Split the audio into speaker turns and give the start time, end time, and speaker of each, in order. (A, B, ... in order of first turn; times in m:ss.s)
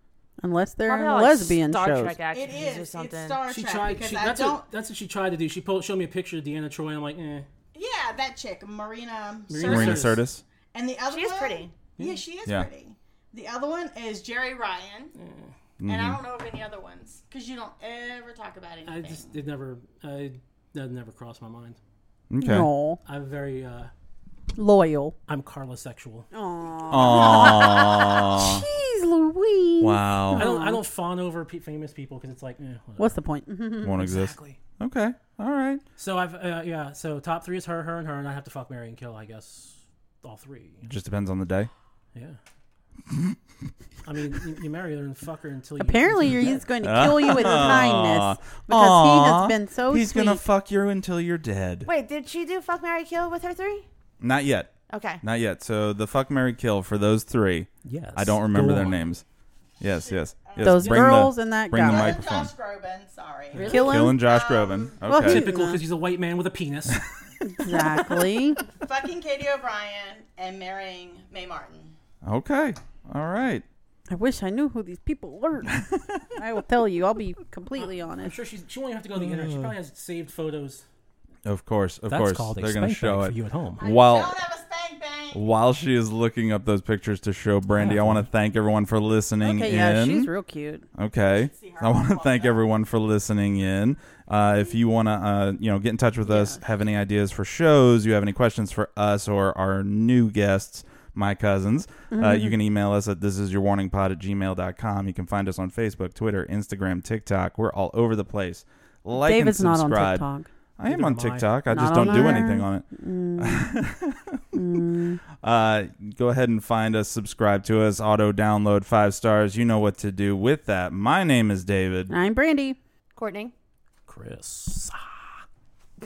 0:00.4-0:02.2 A
0:00.8-0:03.4 B
0:02.3-0:04.6 C
0:03.5-0:07.5 D
0:07.7-0:15.2 C
0:09.5-0:10.2 D
0:09.6-0:10.4 E
0:11.1-0:11.7 B
0:12.0-0:12.2 D
0:15.2-0:15.5 D
0:15.8-0:16.2 E
0:15.8-0:19.4 C
0:18.8-0:21.8 D
0:22.3-0:22.7 E
0:22.4-0:23.0 A
0:23.0-0:23.9 D
0:24.6-0:25.2 A
0:25.3-0:26.3 D
0:26.3-0:30.8 A
0:26.9-0:28.6 E
0:26.9-0:27.9 C
0:29.8-0:30.5 E
0:30.4-0:33.2 D
0:33.0-0:34.0 A
0:33.8-0:35.8 E
0:33.9-0:34.6 D
0:36.0-0:40.9 D
0:40.8-0:41.7 E
0:42.1-0:42.4 D
0:43.1-0:43.4 E
0:44.0-0:46.7 D
0:45.8-0:50.4 A
0:46.8-0:51.9 E
0:47.2-0:47.6 D
0:51.8-0:53.8 B
0:54.2-0:59.2 E
0:54.9-0:55.2 B
0:57.8-0:59.0 D
0:59.8-1:02.5 E
0:59.9-1:01.0 C
1:00.6-1:02.2 A
1:01.8-1:05.0 C
1:03.5-1:03.8 D
1:03.6-1:04.2 B
1:03.6-1:04.2 A
1:03.7-1:05.5 E
1:05.0-1:05.8 A
1:05.1-1:07.0 D
1:07.5-1:08.6 A
1:08.7-1:11.9 C
1:12.2-1:13.6 E
1:14.1-1:15.8 A
1:16.3-1:18.4 A
1:18.2-1:20.8 D
1:19.2-1:19.7 E
1:21.4-1:24.4 E
1:22.1-1:23.8 D
1:23.8-1:25.4 C
1:25.3-1:30.3 E
1:27.7-1:28.3 D
1:29.4-1:30.8 A
1:30.9-1:50.3 E
1:31.3-1:32.6 C
1:36.3-1:36.6 A
1:42.1-1:42.6 A
1:49.2-1:50.5 A
1:50.8-1:52.9 E
1:50.8-1:52.2 D
1:51.7-1:53.8 A
1:53.4-1:54.8 E
1:54.5-1:55.2 A
1:55.4-2:02.1 E
2:02.1-2:02.8 A
2:03.1-2:03.5 B
2:04.1-2:05.4 D